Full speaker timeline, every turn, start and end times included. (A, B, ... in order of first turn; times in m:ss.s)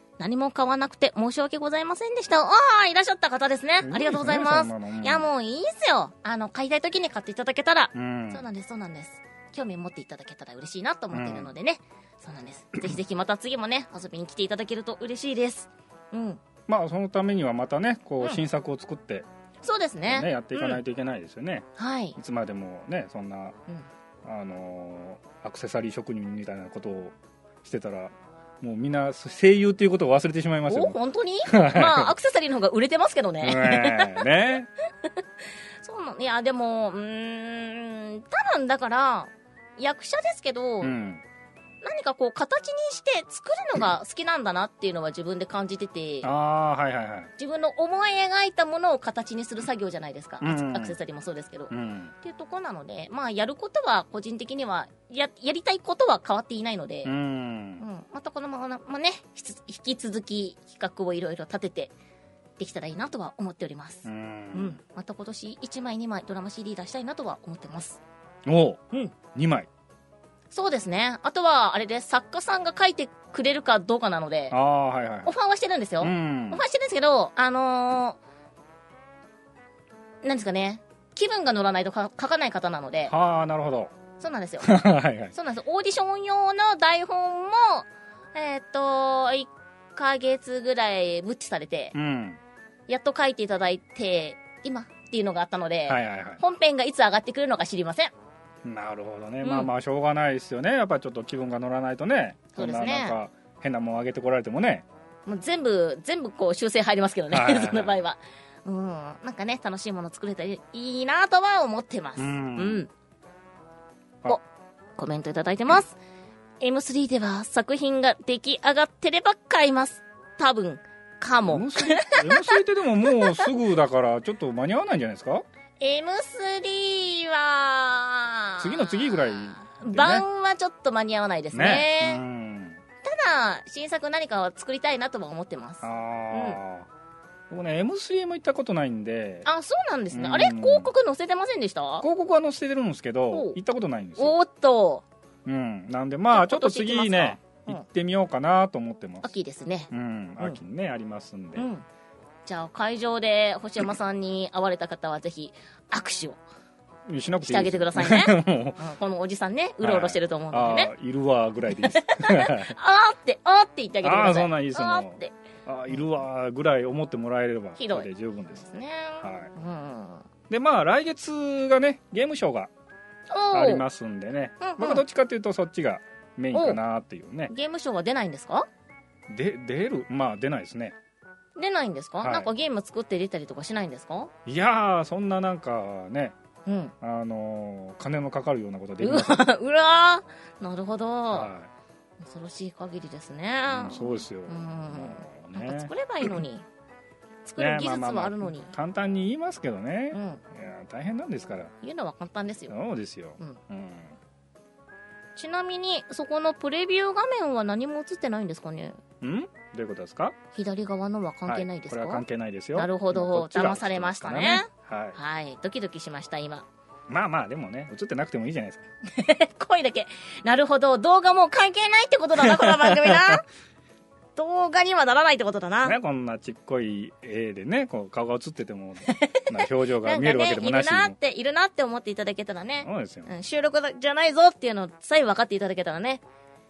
0:00.2-0:16.4 A
0:03.8-0:05.3 B
0:07.9-0:08.4 B
0:11.1-0:11.5 B
0:16.7-0:19.3 B
0:19.6-0:20.8 A
0:20.0-0:23.6 B
0:21.8-0:22.2 A
0:24.2-0:32.1 B
0:30.7-0:34.3 A
0:33.4-0:34.7 B
0:35.8-0:40.9 A
0:40.8-0:41.2 B
0:41.8-0:46.3 A
0:46.2-0:47.3 B
0:47.4-0:57.1 A
0:50.4-0:51.0 B
0:51.7-0:52.1 B
0:57.0-0:57.8 B
0:57.8-1:01.9 A
1:02.6-1:08.0 A
1:04.0-1:04.8 B
1:08.4-1:09.7 B
1:10.5-1:14.5 A
1:14.5-1:15.3 B
1:15.2-1:18.2 A
1:16.0-1:16.6 B
1:20.2-1:23.1 A
1:23.1-1:23.9 B
1:24.2-1:24.7 A
1:24.6-1:25.3 B
1:25.3-1:31.9 A
1:31.9-1:32.4 B
1:32.9-1:38.1 A
1:35.9-1:36.4 B
1:38.6-1:44.8 B
1:39.4-1:39.7 A
1:42.6-1:43.2 A
1:45.2-1:52.9 A
1:47.3-1:48.0 B
1:52.2-1:52.8 B
1:55.0-1:56.0 A
1:56.6-2:03.5 A
2:01.4-2:05.4 B
2:05.8-2:12.2 A
2:08.6-2:10.2 B
2:11.5-2:12.8 B
2:13.0-2:16.6 A
2:15.8-2:16.9 B
2:17.5-2:19.5 B
2:19.4-2:22.0 A
2:20.1-2:20.9 B
2:22.0-2:24.3 B
2:23.3-2:23.6 A
2:24.2-2:25.0 A
2:25.4-2:29.3 B
2:26.3-2:27.8 A
2:29.2-2:30.6 A
2:29.9-2:31.7 B
2:31.6-2:31.8 A
2:32.4-2:36.4 A
2:37.1-2:38.8 B
2:37.4-2:40.9 A
2:39.8-2:42.7 B
2:41.7-2:45.3 A
2:44.0-2:48.6 B
2:47.8-2:50.3 A
2:49.2-2:49.5 B
2:50.5-2:52.7 B
2:53.3-2:53.8 A
2:53.5-2:57.5 B
2:54.6-2:55.0 A
2:56.5-2:56.8 A
2:57.5-2:58.7 A
2:59.3-3:00.9 B
3:01.6-3:04.3 A
3:02.2-3:02.5 B
3:04.4-3:06.3 B
3:06.6-3:06.9 A
3:07.0-3:09.4 B
3:09.0-3:11.5 A
3:11.3-3:11.7 B
3:12.2-3:16.6 A
3:13.7-3:16.3 B
3:17.4-3:18.7 A
3:17.6-3:21.7 B
3:20.1-3:20.4 A
3:21.8-3:22.7 A
3:22.7-3:24.2 B
3:25.4-3:29.0 A
3:29.2-3:30.4 B
3:30.5-3:32.2 A
3:31.5-3:35.2 B
3:32.7-3:36.6 A
3:37.1-3:38.8 B
3:39.1-3:43.5 A
3:42.4-3:43.4 B
3:44.4-3:46.0 A
3:45.8-3:51.2 B
3:49.0-3:56.2 A
3:52.8-3:53.3 B